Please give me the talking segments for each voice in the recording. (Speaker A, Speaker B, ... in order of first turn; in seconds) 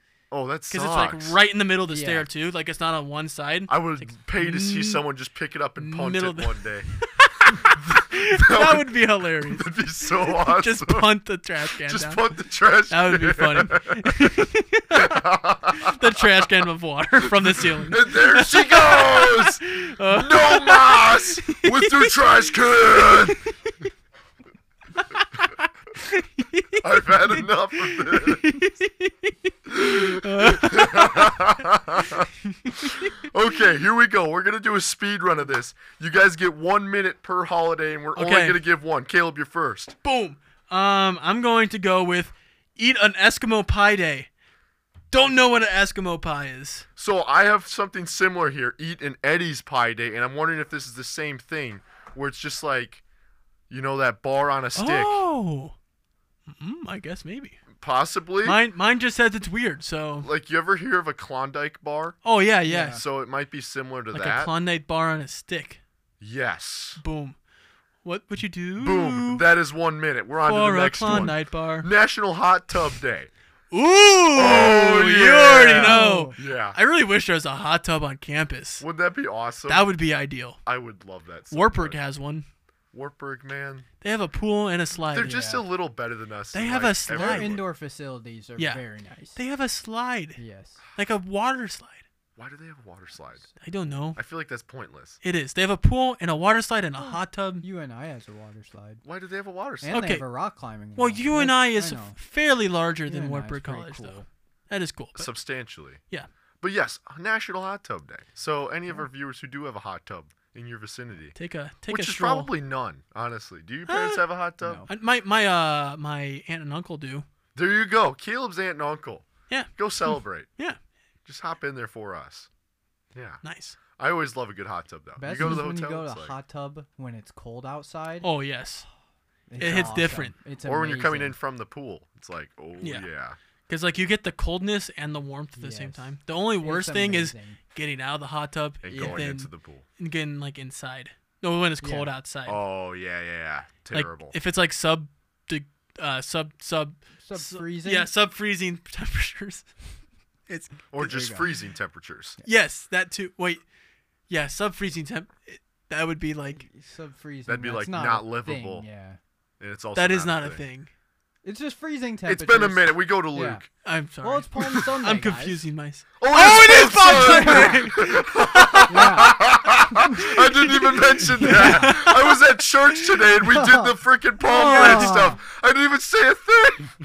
Speaker A: 0.3-1.4, 3.7-6.9, 7.5-11.1, 11.8-16.2, 17.3-23.4, 26.8-28.6, 29.7-40.0, 47.0-53.0, 53.7-55.2, 57.7-58.6, 60.2-62.2, 62.9-64.5, 66.2-67.0, 68.8-73.3, 74.3-76.8, 78.8-79.9, 80.7-82.0, 82.9-83.9, 85.1-87.6, 92.4-93.5, 94.2-95.2, 99.0-100.0, 105.2-106.0, 106.6-111.3, 111.9-114.8, 117.5-120.5, 121.2-122.5, 123.1-123.4, 123.9-126.3, 130.6-133.4, 138.8-139.8, 142.4-144.3, 150.9-152.4, 157.5-158.8, 159.6-160.6, 162.3-163.6, 166.2-176.9
Speaker B: 0.7-5.0, 5.8-12.2, 12.9-15.1, 15.8-22.2, 22.9-23.7, 25.0-31.4, 32.6-33.1, 38.1-38.6, 40.0-44.3, 45.1-46.9, 54.8-55.7, 56.5-57.6, 58.4-60.3, 62.2-63.0, 64.1-65.8, 67.0-67.3, 68.0-69.4, 70.4-71.9, 73.7-78.8, 79.7-80.6, 81.5-82.5, 84.0-85.4, 86.5-87.6, 88.6-88.8, 89.3-90.4, 90.9-92.0, 93.6-94.2, 95.2-97.6, 99.9-100.2, 101.0-105.3, 111.3-112.5, 113.9-114.2, 114.9-117.2, 119.5-120.8, 123.4-123.8, 128.2-128.8, 129.6-130.3, 132.8-133.1, 133.7-142.6, 143.9-149.8, 150.5-151.0, 152.4-153.6, 154.3-156.7, 159.9-160.9, 163.8-169.2, 170.2-172.4, 174.7-175.3
Speaker C: 1.9-2.2, 62.7-63.0, 75.7-76.3, 85.2-85.6, 87.1-89.4, 90.4-90.8, 97.0-99.0, 99.8-102.2, 103.1-104.3, 114.6-114.9, 125.2-128.3, 129.5-131.3, 135.6-137.6, 138.9-139.2, 141.8-142.1, 147.2-148.1, 151.0-151.4, 156.5-159.2, 161.4-163.6, 164.2-165.6, 167.0-167.9, 168.9-169.4, 170.1-170.7, 171.4-172.0, 173.4-175.4